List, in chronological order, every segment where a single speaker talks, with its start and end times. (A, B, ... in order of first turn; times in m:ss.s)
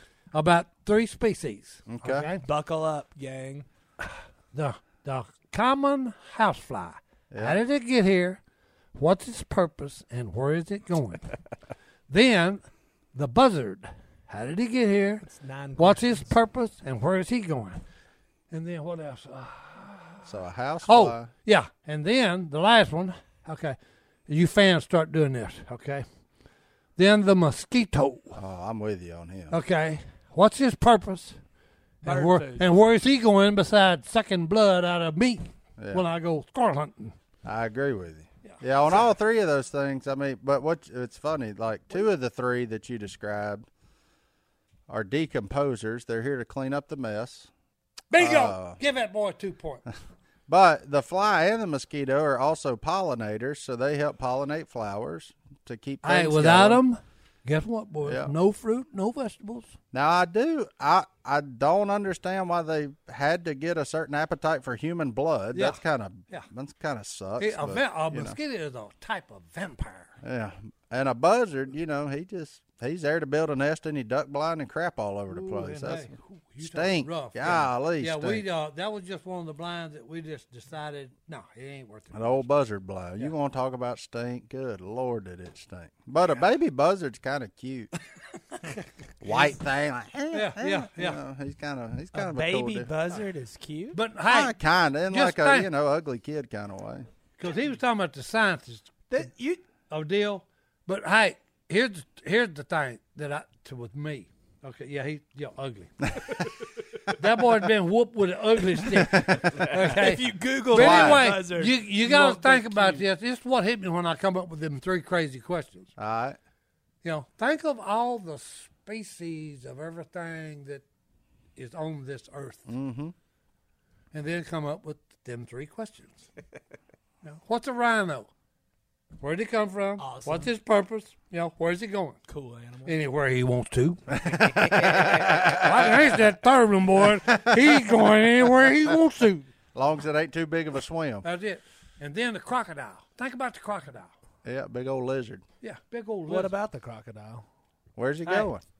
0:00.3-0:02.4 A
0:01.9-0:02.3 B
0:02.4-0:03.6 C
0:04.5-0:08.4 A
0:07.3-0:07.6 B
0:08.9-0:11.3 A
0:12.1-0:12.6 A
0:13.1-0:15.2 A
0:15.2-0:16.3 C
0:15.8-0:17.8 A
0:18.5-0:20.3 A
0:20.2-0:21.3 B
0:20.8-0:23.8 A
0:24.3-0:26.0 A
0:27.0-0:28.4 A
0:28.3-0:29.6 B
0:29.5-0:31.4 A
0:32.0-0:37.2 A
0:32.0-0:32.6 C
0:35.8-0:36.0 B
0:37.4-0:43.7 B
0:44.9-0:47.5 B
0:48.1-0:49.8 A
0:48.2-0:48.8 B
0:50.5-0:56.8 B
0:56.0-0:59.7 A
0:58.0-0:58.3 B
0:59.9-1:08.4 B
1:05.5-1:05.8 A
1:07.4-1:10.1 A
1:10.2-1:18.4 B
1:15.3-1:22.4 A
1:22.1-1:27.9 B
1:29.2-1:32.9 B
1:30.3-1:31.2 A
1:32.1-1:34.0 C
1:33.9-1:34.5 A
1:34.3-1:37.1 B
1:35.1-1:35.7 A
1:37.4-1:38.9 A
1:39.1-1:39.6 C
1:39.9-1:46.0 A
1:47.1-1:55.9 A
1:49.1-1:49.5 B
1:49.6-1:53.0 C
1:50.7-1:51.3 B
1:56.0-1:56.4 B
1:57.0-2:00.8 A
2:01.6-2:02.7 A
2:02.7-2:03.1 B
2:04.1-2:06.3 A
2:07.2-2:08.3 A
2:09.2-2:12.2 A
2:10.0-2:10.5 C
2:12.3-2:12.9 C
2:12.8-2:14.1 A
2:14.2-2:15.9 B
2:15.4-2:19.5 A
2:19.7-2:21.2 B
2:21.2-2:24.1 A
2:24.4-2:25.4 B
2:25.6-2:26.5 A
2:26.3-2:27.4 C
2:28.0-2:28.6 B